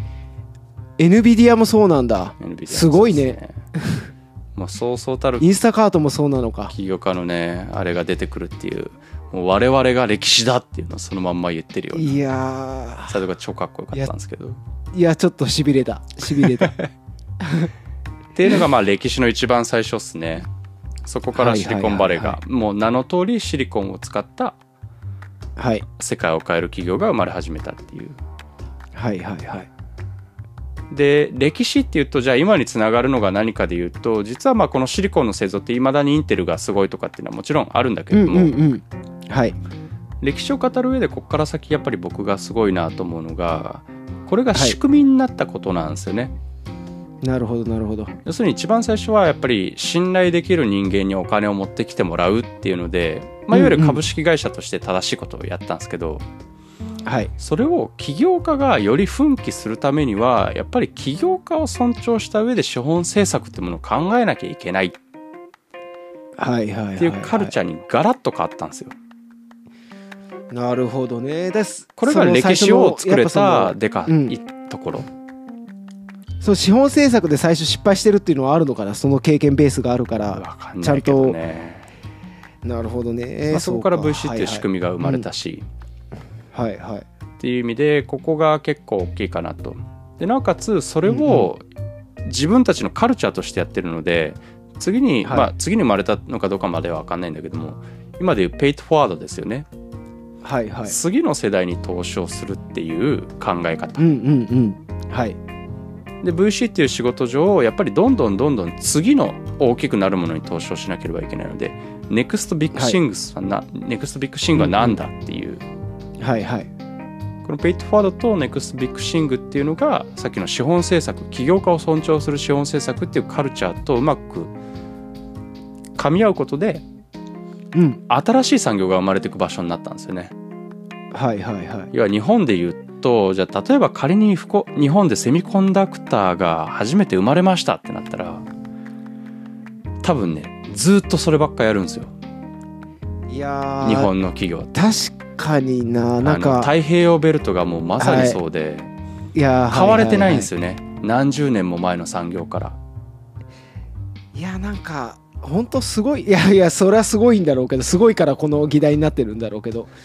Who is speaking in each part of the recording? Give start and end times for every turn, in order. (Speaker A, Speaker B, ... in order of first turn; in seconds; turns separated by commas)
Speaker A: 1.0-4.1, Speaker B: 2.4-3.6, Speaker B: 4.5-5.5, Speaker A: 5.4-6.7, Speaker B: 6.7-12.2, Speaker A: 11.9-13.2, Speaker B: 13.1-14.6, Speaker A: 14.9-16.8, Speaker B: 16.4-16.8, Speaker A: 17.4-17.7, Speaker B: 18.3-20.5, Speaker B: 21.0-24.6, Speaker A: 21.3-22.4, Speaker A: 25.6-25.8, Speaker B: 26.0-28.2, Speaker A: 28.9-29.7, Speaker B: 30.9-38.5, Speaker A: 38.1-39.6, Speaker B: 40.2-46.3, Speaker A: 47.2-48.1, Speaker B: 48.2-56.2, Speaker A: 53.5-54.0, Speaker A: 57.0-57.3, Speaker B: 57.4-65.0, Speaker A: 66.4-67.5, Speaker B: 67.0-68.9, Speaker A: 70.5-74.3, Speaker B: 72.0-75.1, Speaker A: 76.4-81.4, Speaker B: 80.3-81.9, Speaker A: 82.6-85.3, Speaker B: 83.5-85.7, Speaker A: 86.5-87.0, Speaker B: 87.4-91.6, Speaker A: 91.0-91.5, Speaker B: 92.2-99.7, Speaker A: 95.2-95.5, Speaker A: 100.4-101.0, Speaker B: 100.8-104.0, Speaker A: 104.0-105.4, Speaker B: 106.2-115.6, Speaker A: 114.5-115.0, Speaker A: 116.2-116.7, Speaker B: 117.4-124.5, Speaker B: 126.0-126.8, Speaker A: 127.7-128.0, Speaker B: 128.1-130.3, Speaker A: 131.1-131.9, Speaker B: 131.9-138.4, Speaker B: 140.0-142.1, Speaker A: 143.3-144.1, Speaker B: 143.8-144.7, Speaker A: 144.7-146.7, Speaker B: 146.2-148.9, Speaker A: 148.0-148.4, Speaker A: 149.3-150.5, Speaker B: 149.7-152.8, Speaker A: 154.3-159.9